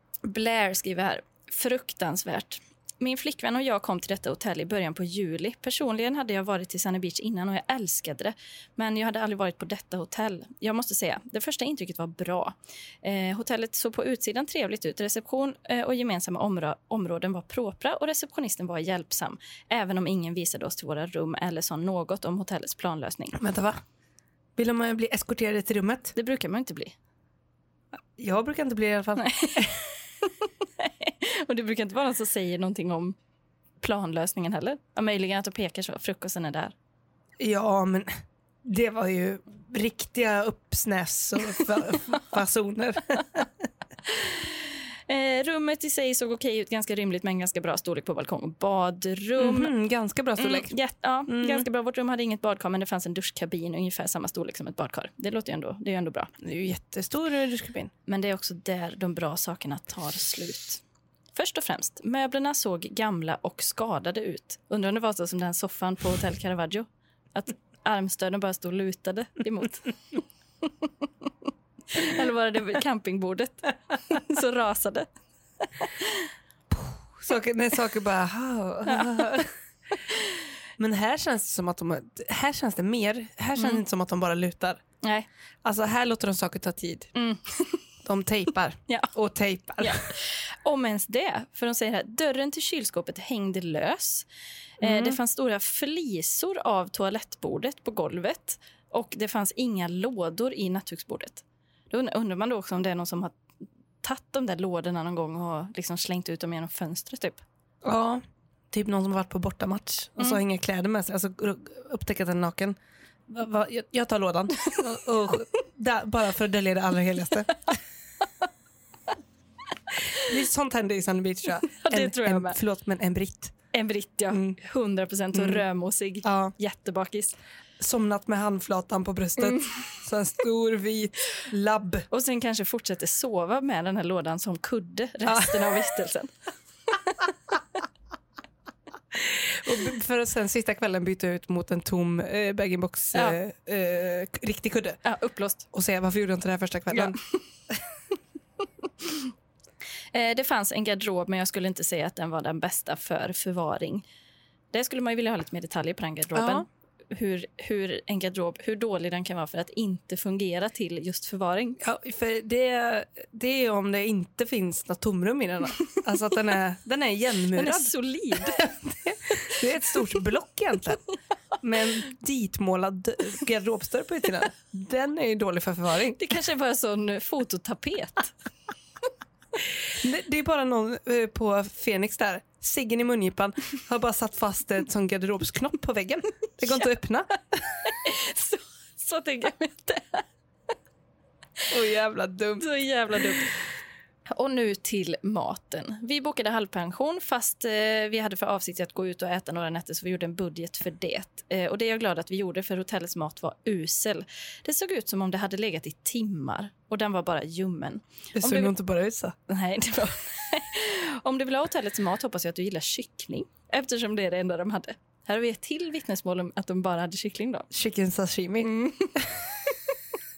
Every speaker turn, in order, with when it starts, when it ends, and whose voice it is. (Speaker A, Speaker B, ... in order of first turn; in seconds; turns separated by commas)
Speaker A: 0.2-23.4, Speaker B: 23.3-23.8, Speaker B: 24.6-26.1, Speaker A: 26.1-26.9, Speaker B: 28.2-29.7, Speaker A: 29.1-33.1, Speaker A: 33.8-36.7, Speaker B: 37.4-38.1, Speaker B: 38.6-43.6, Speaker A: 44.1-49.7, Speaker B: 49.4-50.7, Speaker A: 50.4-56.3, Speaker B: 51.3-51.7, Speaker B: 56.4-57.9, Speaker A: 58.1-60.8, Speaker A: 61.4-71.3, Speaker A: 71.9-75.1, Speaker A: 75.6-76.3, Speaker B: 76.7-79.5, Speaker A: 78.9-79.4, Speaker B: 80.8-84.8, Speaker A: 83.6-83.8, Speaker A: 85.0-85.3, Speaker B: 85.6-87.1, Speaker A: 87.1-87.8, Speaker B: 88.0-90.1, Speaker A: 89.8-94.2, Speaker A: 94.8-103.4, Speaker B: 94.8-95.2, Speaker A: 104.0-107.4, Speaker B: 107.8-108.2, Speaker B: 108.7-112.8, Speaker B: 113.3-117.8, Speaker B: 120.1-123.5, Speaker A: 121.7-122.6, Speaker A: 123.7-127.4, Speaker B: 124.3-124.6, Speaker B: 125.3-125.6, Speaker B: 126.2-126.5, Speaker B: 127.8-132.1, Speaker A: 129.4-129.8, Speaker A: 132.1-136.3, Speaker B: 135.2-135.8, Speaker A: 136.9-137.3, Speaker B: 139.2-145.0, Speaker A: 145.0-145.7, Speaker B: 145.7-147.2, Speaker A: 146.9-147.2, Speaker A: 150.1-154.1, Speaker A: 154.7-161.8, Speaker B: 156.3-156.6, Speaker B: 161.8-171.0, Speaker A: 167.5-168.7, Speaker B: 171.6-176.2, Speaker A: 176.1-178.3, Speaker B: 179.9-187.9, Speaker A: 187.8-190.3, Speaker B: 191.7-192.7, Speaker A: 192.6-193.5, Speaker A: 194.3-208.7, Speaker B: 208.4-209.3, Speaker A: 209.5-217.7, Speaker B: 217.7-218.7, Speaker A: 218.6-219.8